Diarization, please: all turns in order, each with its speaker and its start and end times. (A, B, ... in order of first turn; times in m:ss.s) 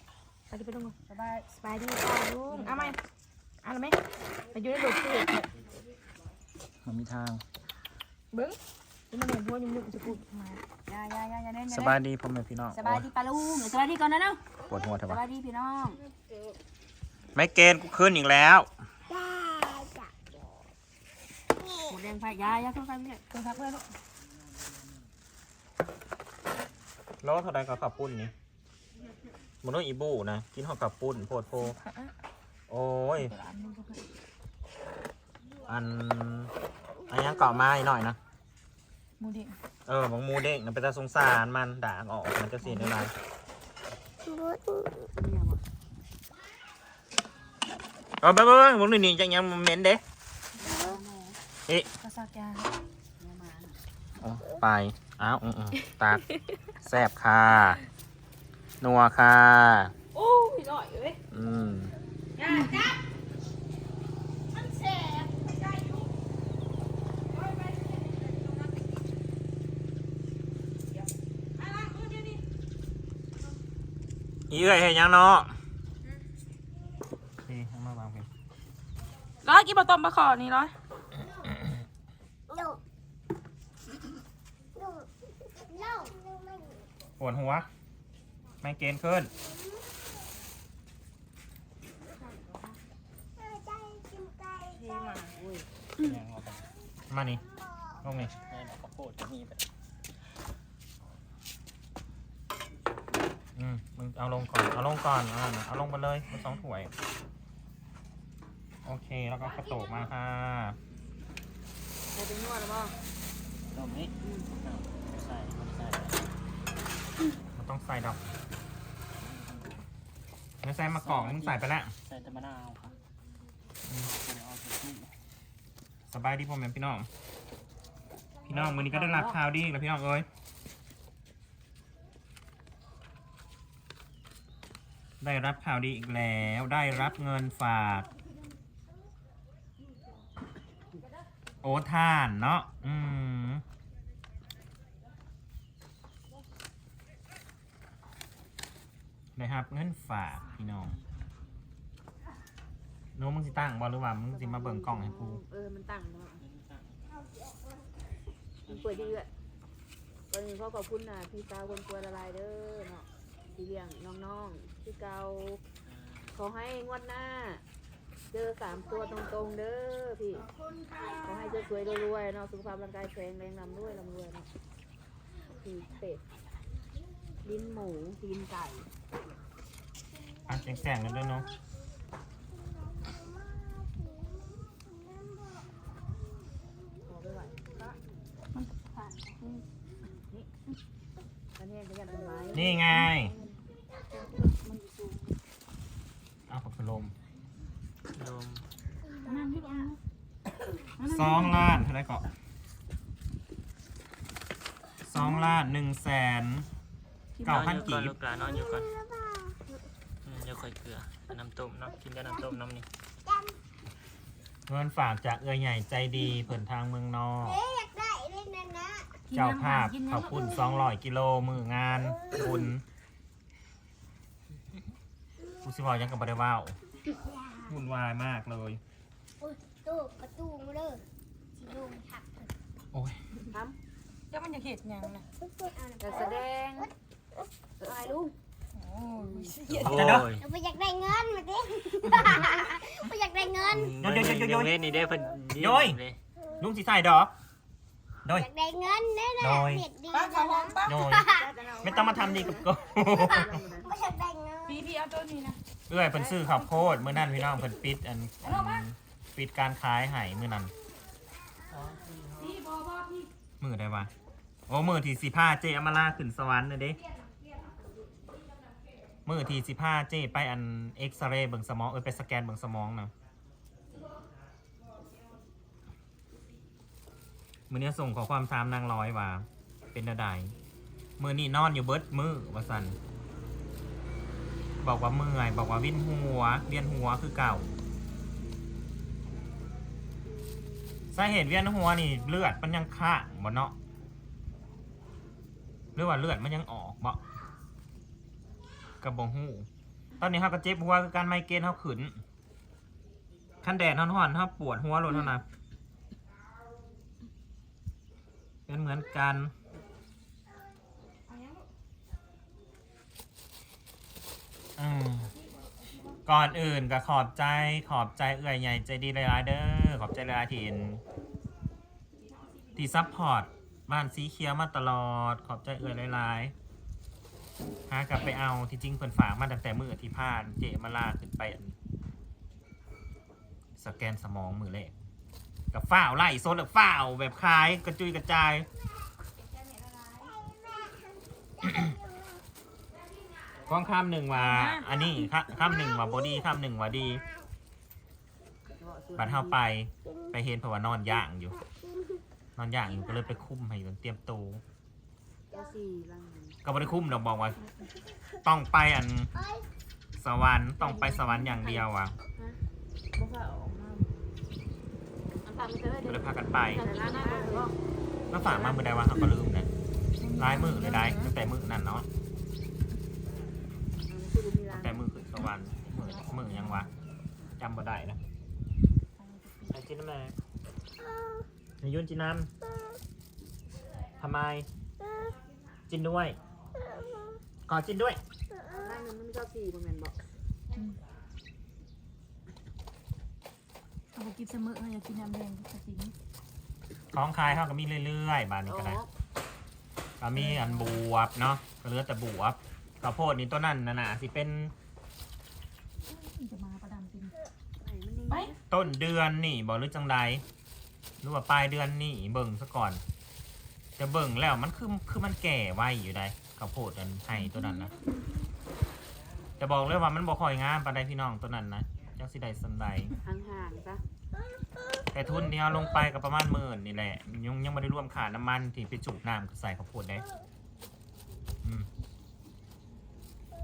0:00.5-0:00.9 A
0:01.1-0:01.5 B
0:01.6-0:03.0 A
0:02.5-0:02.9 B
0:03.6-0:04.0 A
0:04.5-0:05.5 A
0:06.8-0:07.4 C
0:08.3-0:08.6 A
0:09.1-0:10.6 A
0:10.9-0:12.0 B
0:11.7-0:13.0 C
0:12.7-0:16.0 B
0:14.7-0:15.2 C
0:17.3-0:18.7 C
0:19.1-0:20.2 D
0:21.6-0:21.9 D
0:21.8-0:23.2 B
0:23.3-0:23.8 A
0:27.2-0:28.3 C
0:29.6-0:31.8 C
0:31.6-0:32.1 A
0:32.7-0:33.3 C
0:33.2-0:34.0 A
0:35.6-0:36.5 C
0:37.1-0:38.2 C
0:39.2-0:39.6 A
0:39.9-0:43.1 C
0:42.6-0:42.9 A
0:44.3-0:44.6 D
0:45.1-0:45.6 B
0:48.2-0:50.0 C
0:50.6-0:51.4 B
0:52.0-0:52.7 A
0:53.2-0:53.8 B
0:54.2-0:56.2 C
0:56.8-0:57.8 C
0:58.8-0:59.9 C
1:00.1-1:01.2 A
1:01.3-1:01.9 C
1:02.4-1:03.0 A
1:04.5-1:06.0 A
1:11.6-1:12.4 A
1:14.5-1:15.5 C
1:17.4-1:18.2 C
1:19.4-1:20.7 A
1:22.5-1:22.8 D
1:24.8-1:25.0 D
1:25.6-1:26.8 D
1:27.2-1:27.7 C
1:28.6-1:29.3 C
1:33.4-1:34.9 D
1:34.8-1:35.3 A
1:35.4-1:35.6 B
1:36.0-1:36.7 E
1:37.1-1:37.4 C
1:38.0-1:38.3 C
1:38.4-1:39.6 E
1:43.6-1:46.9 C
1:48.8-1:50.8 C
1:52.1-1:52.9 B
1:53.7-1:56.3 E
1:54.2-1:54.5 B
1:57.6-1:58.2 C
2:00.6-2:01.9 C
2:00.9-2:02.9 E
2:03.8-2:04.1 C
2:04.0-2:05.1 E
2:06.1-2:07.1 C
2:08.5-2:10.3 C
2:08.5-2:09.3 A
2:15.2-2:18.1 C
2:21.6-2:23.6 C
2:29.4-2:31.0 C
2:30.7-2:31.3 E
2:33.1-2:35.4 C
2:34.3-2:36.4 B
2:36.4-2:37.2 E
2:38.7-2:39.2 E
2:38.7-2:39.3 B
2:40.3-2:45.6 B
2:45.8-2:46.3 E
2:46.3-2:47.6 B
2:48.3-2:50.5 B
2:51.2-2:54.5 B
2:55.6-2:56.2 B
2:57.4-2:58.9 B
3:00.5-3:01.5 C
3:07.0-3:08.0 B
3:08.5-3:09.6 A
3:11.6-3:12.8 B
3:12.5-3:13.3 C
3:12.9-3:13.5 A
3:14.4-3:15.3 A
3:16.5-3:17.1 C
3:18.1-3:18.6 E
3:19.2-3:20.0 A
3:20.8-3:21.8 A
3:21.0-3:22.3 C
3:25.0-3:26.7 C
3:25.2-3:25.5 A
3:27.4-3:27.8 A
3:27.4-3:28.1 C
3:27.4-3:28.9 E
3:28.8-3:29.6 D
3:30.2-3:32.9 E
3:33.3-3:33.5 D
3:34.7-3:37.6 C
3:37.5-3:39.2 D
3:39.3-3:40.9 A
3:39.3-3:42.8 C
3:45.6-3:46.8 C
3:47.1-3:47.7 D
3:47.6-3:48.8 C
3:49.4-3:51.0 D
3:51.6-3:52.5 D
3:52.9-3:53.2 C
3:53.5-3:53.8 B
3:54.3-3:55.3 A
3:55.4-3:56.4 D
3:56.0-3:56.9 B
3:57.8-3:58.3 B
3:58.7-4:00.0 A
3:59.7-4:00.5 E
3:59.8-4:00.3 C
4:00.4-4:04.0 D
4:03.7-4:06.2 E
4:04.0-4:04.8 C
4:05.6-4:06.0 C
4:06.6-4:07.3 C
4:08.2-4:08.5 C
4:08.3-4:10.8 D
4:09.4-4:09.9 C
4:10.1-4:11.2 A
4:10.8-4:13.6 C
4:11.1-4:13.9 B
4:13.8-4:14.8 D
4:14.6-4:15.6 A
4:15.9-4:20.7 C
4:16.2-4:17.1 A
4:18.4-4:18.8 A
4:21.7-4:22.6 E
4:22.4-4:23.3 A
4:23.6-4:24.1 C
4:24.7-4:27.0 C
4:29.2-4:33.1 C
4:37.7-4:40.5 C
4:41.2-4:43.0 C
4:44.8-4:47.7 C
4:51.1-4:53.7 C
4:56.0-4:57.2 C
4:59.0-4:59.7 C
5:00.2-5:02.2 C
5:03.6-5:05.4 C
5:08.7-5:09.5 C
5:11.3-5:11.6 A
5:14.8-5:15.3 C
5:16.2-5:21.0 C
5:22.8-5:26.5 C
5:27.9-5:31.7 C
5:33.8-5:34.9 C
5:35.7-5:38.7 C
5:40.1-5:42.4 D
5:43.7-5:47.2 C
5:44.3-5:44.9 A
5:48.7-5:49.6 B
5:49.2-5:51.6 C
5:52.6-5:54.6 C
5:55.5-5:56.6 B
5:56.6-5:57.6 C
5:58.4-5:59.3 C
5:59.4-5:59.6 D
6:00.2-6:02.1 C
6:00.8-6:01.8 A
6:03.2-6:04.1 B
6:05.4-6:07.7 B
6:06.0-6:06.8 C
6:06.8-6:07.7 A
6:08.3-6:09.7 C
6:08.4-6:08.8 B
6:10.2-6:11.3 A
6:10.4-6:12.1 C
6:14.1-6:15.1 B
6:14.7-6:16.9 C
6:15.9-6:16.9 A
6:17.6-6:18.2 C
6:19.2-6:19.8 A
6:19.7-6:20.3 C
6:21.1-6:21.4 D
6:21.8-6:22.5 C
6:24.2-6:24.7 C
6:25.0-6:25.3 D
6:25.9-6:26.4 C
6:27.7-6:28.2 C
6:28.5-6:28.8 D
6:28.8-6:30.2 B
6:30.7-6:31.0 A
6:34.1-6:36.1 A
6:37.1-6:39.0 C
6:38.6-6:39.1 B
6:40.2-6:44.7 C
6:40.4-6:41.0 A
6:46.1-6:47.4 A
6:47.8-6:48.6 B
6:48.7-6:50.4 C
6:51.2-6:53.0 C
6:54.0-6:57.9 C
6:57.4-6:58.1 A
6:59.6-7:03.1 C
7:03.2-7:04.0 B
7:05.1-7:10.2 C